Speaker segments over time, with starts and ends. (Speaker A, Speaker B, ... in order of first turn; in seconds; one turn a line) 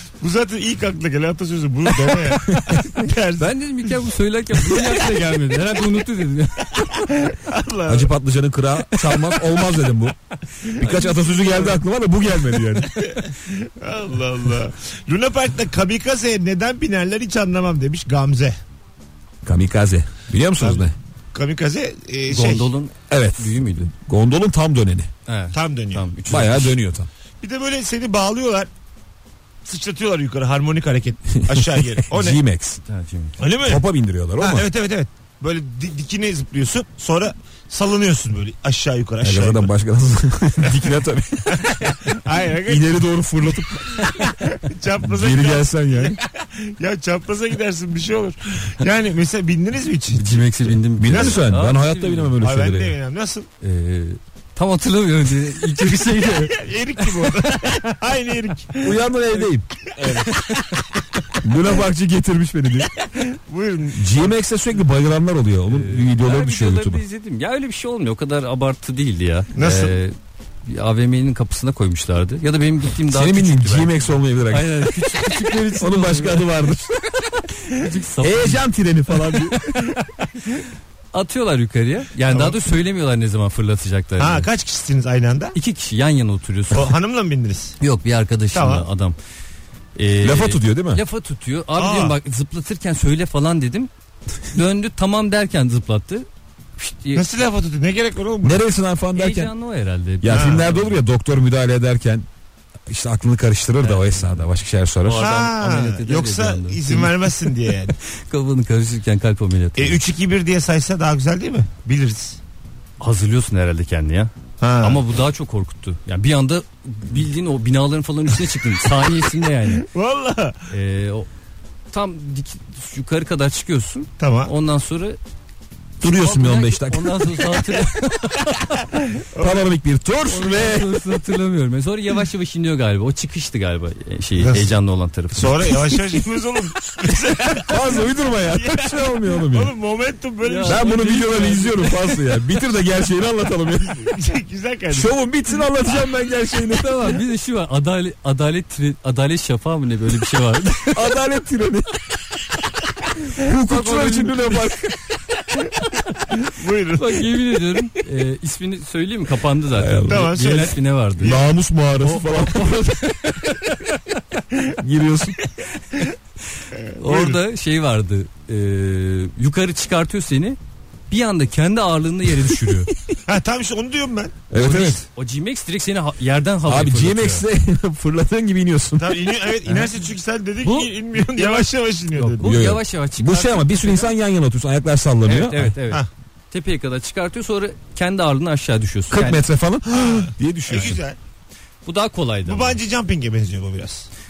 Speaker A: 0.2-3.9
Speaker B: 3.4-7.0
Speaker A: 6.8-8.1
Speaker C: 7.9-10.2
Speaker A: 10.7-11.8
Speaker C: 10.8-13.0
Speaker A: 12.9-18.6
Speaker C: 19.4-20.9
Speaker A: 20.6-22.7
Speaker B: 22.3-23.9
Speaker C: 23.1-25.1
Speaker B: 25.3-26.8
Speaker A: 25.5-26.1
Speaker C: 26.3-27.1
Speaker A: 27.4-28.7
Speaker A: 29.6-32.4
Speaker C: 31.4-32.8
Speaker B: 32.9-33.4
Speaker A: 33.4-33.9
Speaker C: 33.6-34.7
Speaker A: 34.4-39.7
Speaker C: 39.2-42.0
Speaker A: 41.5-43.0
Speaker C: 42.7-44.2
Speaker A: 43.9-50.5
Speaker C: 45.0-46.2
Speaker B: 50.1-52.4
Speaker C: 51.0-53.0
Speaker A: 51.0-51.4
Speaker A: 52.4-53.5
Speaker B: 53.6-56.6
Speaker A: 56.4-59.0
Speaker C: 58.8-59.7
Speaker A: 59.9-60.8
Speaker B: 60.1-60.5
Speaker C: 61.4-62.9
Speaker A: 63.0-64.3
Speaker C: 64.0-67.0
Speaker B: 65.7-76.5
Speaker A: 69.5-70.0
Speaker C: 73.1-77.5
Speaker B: 77.7-78.7
Speaker C: 78.2-79.8
Speaker B: 81.1-84.5
Speaker A: 82.3-82.6
Speaker A: 84.2-85.6
Speaker B: 85.5-86.9
Speaker A: 86.7-87.8
Speaker B: 87.8-89.2
Speaker A: 88.5-88.9
Speaker B: 90.0-93.9
Speaker C: 90.2-91.0
Speaker A: 91.8-92.2
Speaker B: 94.5-97.2
Speaker A: 97.2-98.6
Speaker C: 98.4-99.5
Speaker B: 99.1-101.0
Speaker C: 100.2-102.3
Speaker A: 100.3-100.7
Speaker C: 102.9-105.3
Speaker B: 103.8-104.5
Speaker B: 105.0-107.5
Speaker A: 105.2-108.0
Speaker B: 108.0-110.0
Speaker A: 109.8-112.4
Speaker B: 113.0-119.9
Speaker A: 114.6-115.0
Speaker A: 119.8-120.7
Speaker B: 120.7-121.3
Speaker B: 121.9-125.2
Speaker A: 124.2-124.5
Speaker C: 126.0-127.4
Speaker B: 126.0-128.9
Speaker A: 129.2-129.7
Speaker C: 129.4-131.0
Speaker B: 130.3-135.8
Speaker A: 134.4-134.7
Speaker A: 135.3-140.9
Speaker C: 137.6-139.7
Speaker B: 140.4-142.2
Speaker C: 140.7-144.2
Speaker A: 143.9-145.1
Speaker C: 144.9-147.2
Speaker B: 146.7-151.0
Speaker C: 150.9-151.9
Speaker C: 153.2-154.9
Speaker B: 153.5-154.8
Speaker A: 156.4-157.3
Speaker B: 156.9-161.4
Speaker C: 159.8-160.3
Speaker A: 160.1-161.4
Speaker C: 161.2-163.1
Speaker B: 162.0-163.9
Speaker C: 164.8-165.4
Speaker A: 166.7-167.4
Speaker B: 166.9-170.6
Speaker B: 171.1-172.9
Speaker A: 173.3-174.5
Speaker C: 174.5-175.0
Speaker B: 174.6-177.4
Speaker C: 176.7-179.3
Speaker A: 179.0-182.6
Speaker B: 179.7-179.9
Speaker B: 180.6-184.1
Speaker C: 182.4-185.8
Speaker B: 185.2-189.4
Speaker C: 189.1-191.0
Speaker A: 189.9-191.2
Speaker B: 191.8-192.8
Speaker A: 192.5-194.1